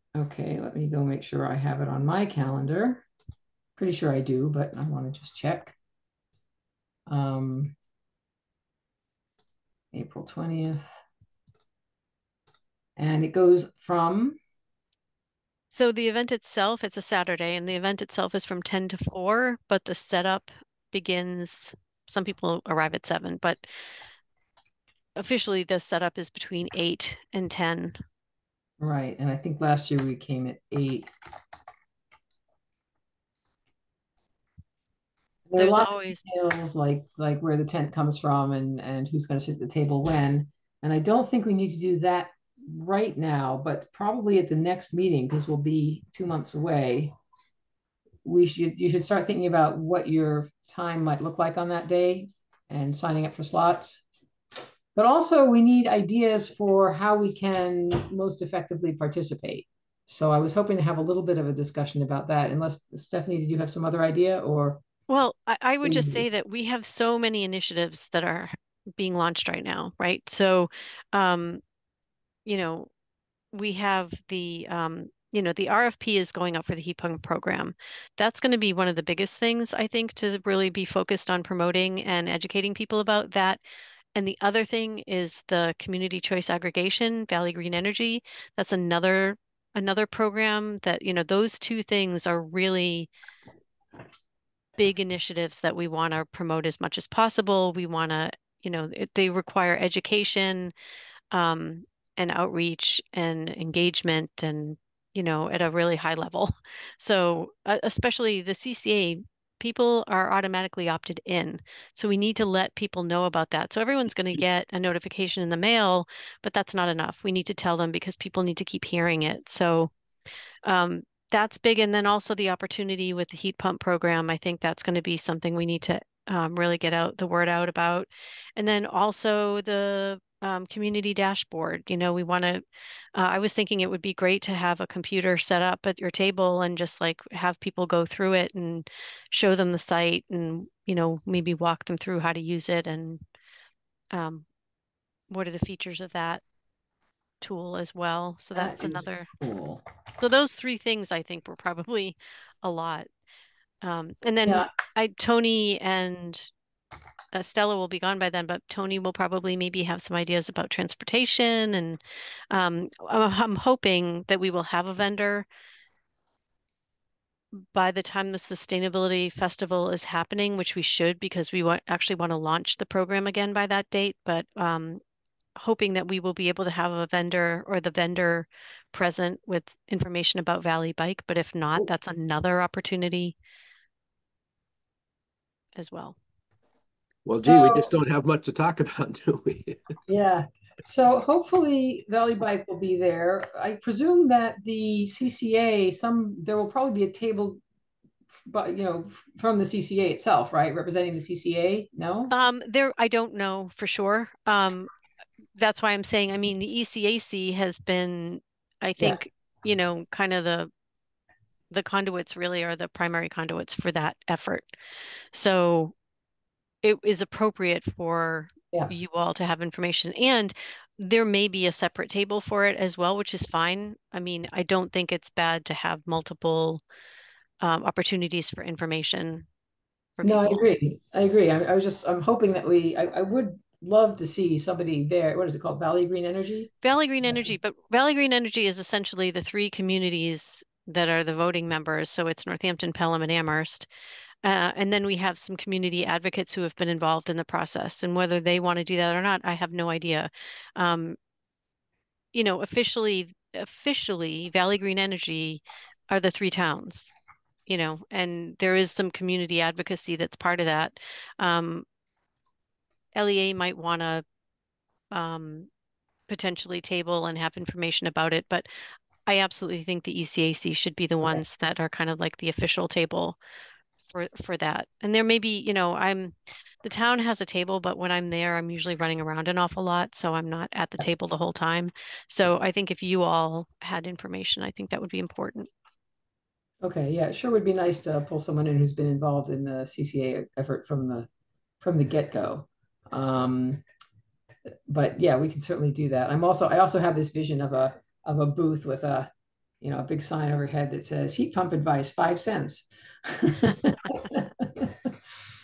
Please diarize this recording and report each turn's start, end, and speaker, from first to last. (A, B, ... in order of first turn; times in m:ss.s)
0:00.2-0:03.0 A
0:03.8-0:05.8 A
0:07.1-0:07.8 A
0:09.9-0:11.0 A
0:13.0-0:14.4 A
0:15.7-0:23.7 B
0:25.2-0:28.0 B
0:28.8-0:31.1 A
0:35.5-0:47.2 A
0:35.6-0:36.2 B
0:48.2-0:54.0 A
0:55.0-1:04.8 A
1:05.1-1:11.6 B
1:05.8-1:06.2 A
1:12.5-1:12.9 B
1:13.5-1:23.6 B
1:24.2-1:33.1 B
1:34.8-1:40.7 B
1:41.3-1:59.9 B
2:00.6-2:12.6 B
2:13.2-2:23.2 B
2:24.1-2:24.5 B
2:25.3-2:26.4 B
2:27.4-2:29.3 B
2:28.6-2:29.8 A
2:30.2-2:33.1 B
2:33.8-2:36.5 B
2:37.3-2:42.0 B
2:42.5-2:45.5 B
2:47.7-2:55.0 B
2:55.6-3:03.4 B
3:05.8-3:06.2 B
3:07.2-3:09.8 C
3:07.4-3:07.9 A
3:10.1-3:17.6 A
3:18.5-3:22.3 A
3:22.3-3:24.9 B
3:25.6-3:30.7 B
3:31.7-3:34.8 B
3:35.3-3:35.9 B
3:36.8-3:46.8 B
3:47.6-3:49.5 B
3:50.2-3:50.6 B
3:50.2-3:56.7 A
3:56.8-4:03.9 B
3:57.2-3:57.5 A
4:04.4-4:11.2 B
4:12.3-4:17.1 B
4:17.7-4:21.8 B
4:23.1-4:24.2 B
4:25.1-4:25.7 B
4:26.3-4:28.7 B
4:29.3-4:33.4 B
4:34.1-4:45.7 B
4:46.8-4:51.3 A
4:51.8-4:53.8 A
4:54.9-4:59.3 A
4:59.8-5:05.0 A